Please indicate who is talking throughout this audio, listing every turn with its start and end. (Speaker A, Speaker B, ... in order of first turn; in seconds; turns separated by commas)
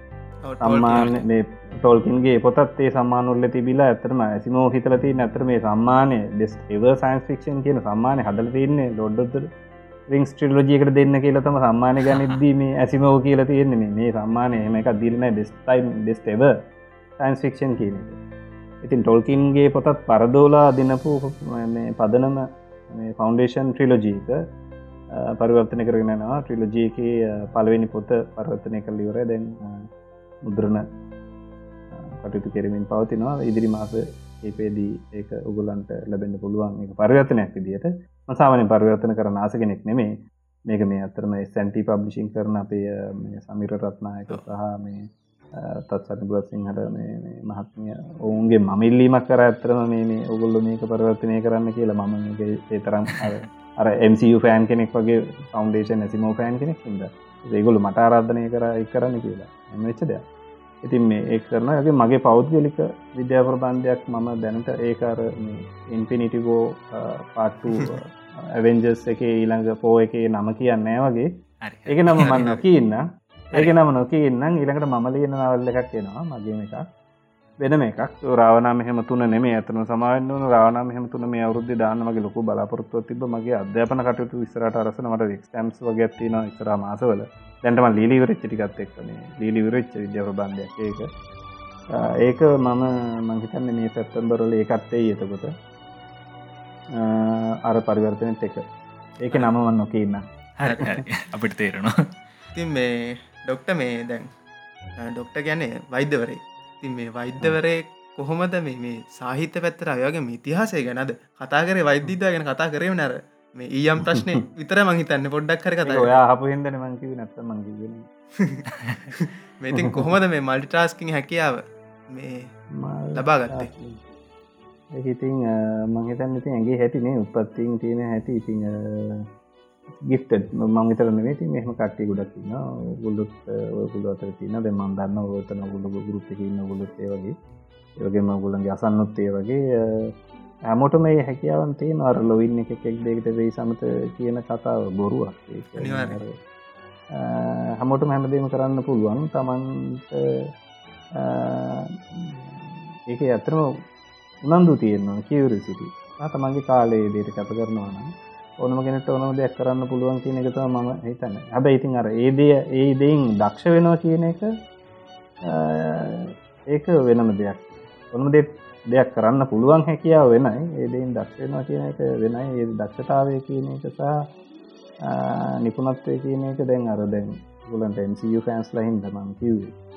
Speaker A: 0.4-1.1, Speaker B: 0.6-9.5, Speaker B: 10.1-16.5, Speaker C: 12.1-12.3, Speaker B: 17.2-18.2, Speaker B: 18.8-24.4, Speaker B: 25.2-29.6, Speaker B: 30.5-30.8, Speaker B: 32.2-40.1, Speaker B: 40.7-45.1, Speaker B: 45.6-60.2, Speaker B: 60.8-71.3, Speaker C: 71.6-72.6, Speaker B: 71.9-76.9, Speaker B: 77.6-91.1, Speaker B: 92.0-95.5, Speaker B: 97.0-98.7, Speaker B: 99.2-100.2, Speaker C: 100.6-102.0, Speaker A: 102.5-104.3, Speaker A: 105.0-116.2, Speaker B: 115.9-118.1, Speaker A: 118.4-122.5, Speaker B: 119.8-120.1, Speaker B: 122.8-124.0, Speaker A: 123.2-123.7, Speaker B: 125.0-129.3, Speaker B: 130.1-137.3, Speaker B: 138.0-140.1, Speaker B: 140.7-146.3, Speaker A: 145.8-146.2, Speaker B: 147.2-150.2, Speaker B: 151.2-152.6, Speaker B: 153.1-153.7, Speaker B: 154.4-158.1, Speaker B: 158.6-164.5, Speaker B: 165.5-174.2, Speaker B: 175.1-179.7